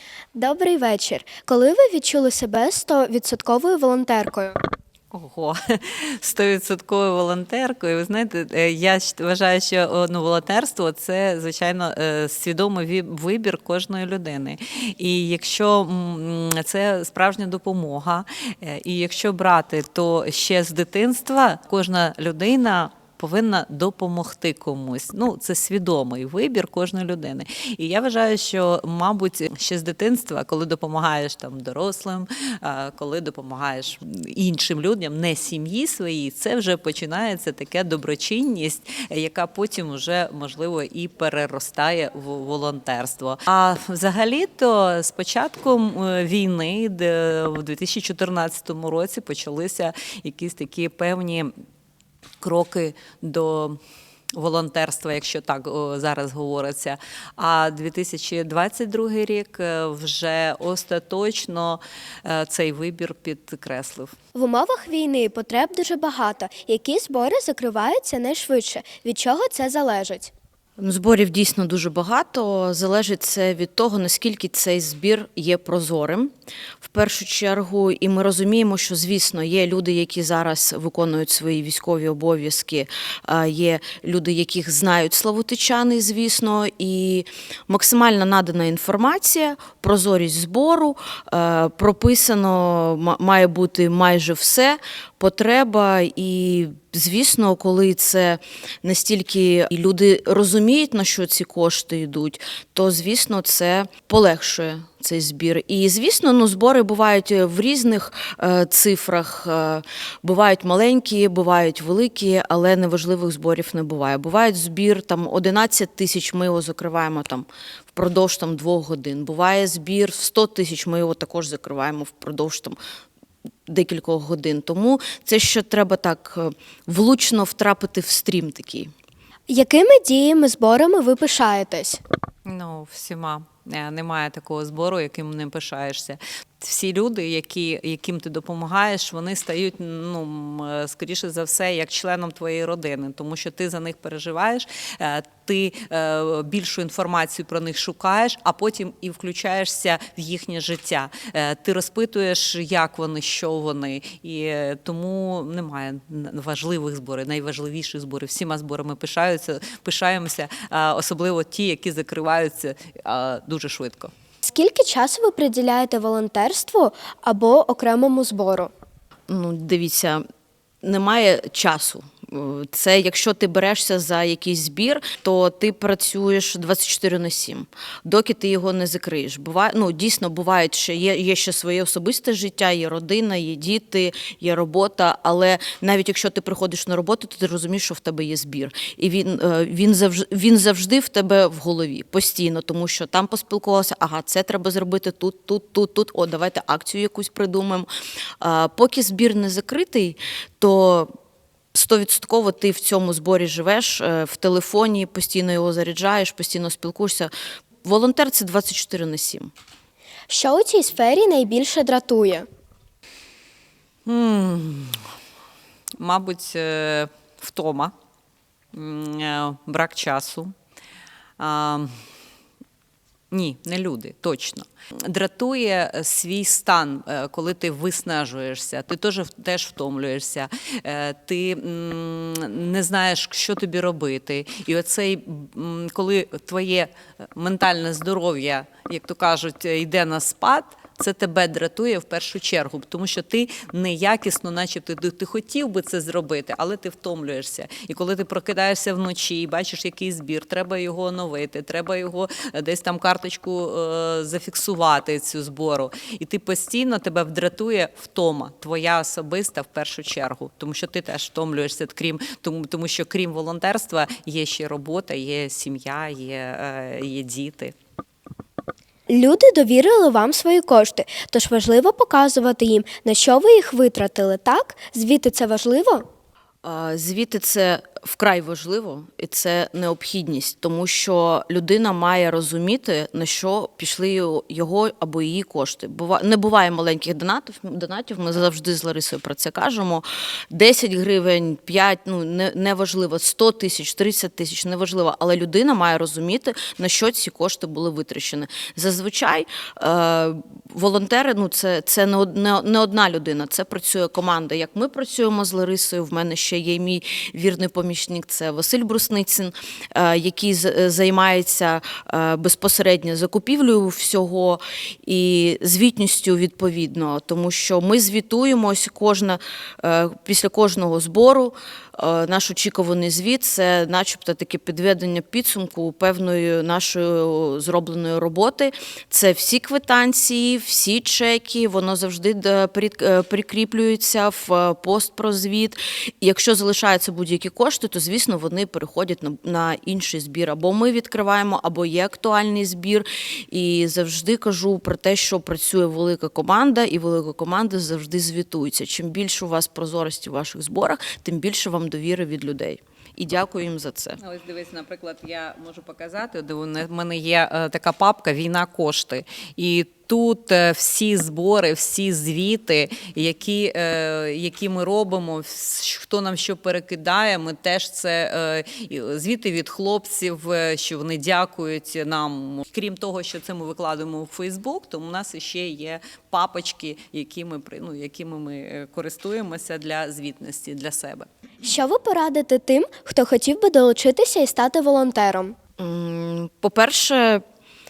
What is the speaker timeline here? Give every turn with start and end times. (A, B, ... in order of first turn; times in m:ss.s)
0:00.3-0:04.6 A
0:05.1-0:51.5 B
0:52.4-0:53.8 B
0:54.3-1:04.1 B
1:04.3-1:10.3 A
1:10.8-1:16.3 C
1:16.8-2:02.8 C
2:03.7-2:08.9 C
2:09.5-2:12.0 A
2:12.5-2:44.1 B
2:44.4-2:48.7 A
2:49.3-2:50.2 C
2:50.8-3:17.9 C
3:18.4-3:21.1 C
3:21.7-3:27.3 C
3:27.8-3:29.5 C
3:30.3-3:32.5 A
3:34.1-3:35.0 B
3:36.0-3:37.9 B
3:38.7-3:40.5 B
3:41.4-3:42.0 B
3:43.3-4:27.8 B
4:29.1-4:36.0 A
4:36.6-5:54.2 C
5:54.2-6:21.3 B
6:21.6-6:25.6 A
6:25.8-6:27.4 C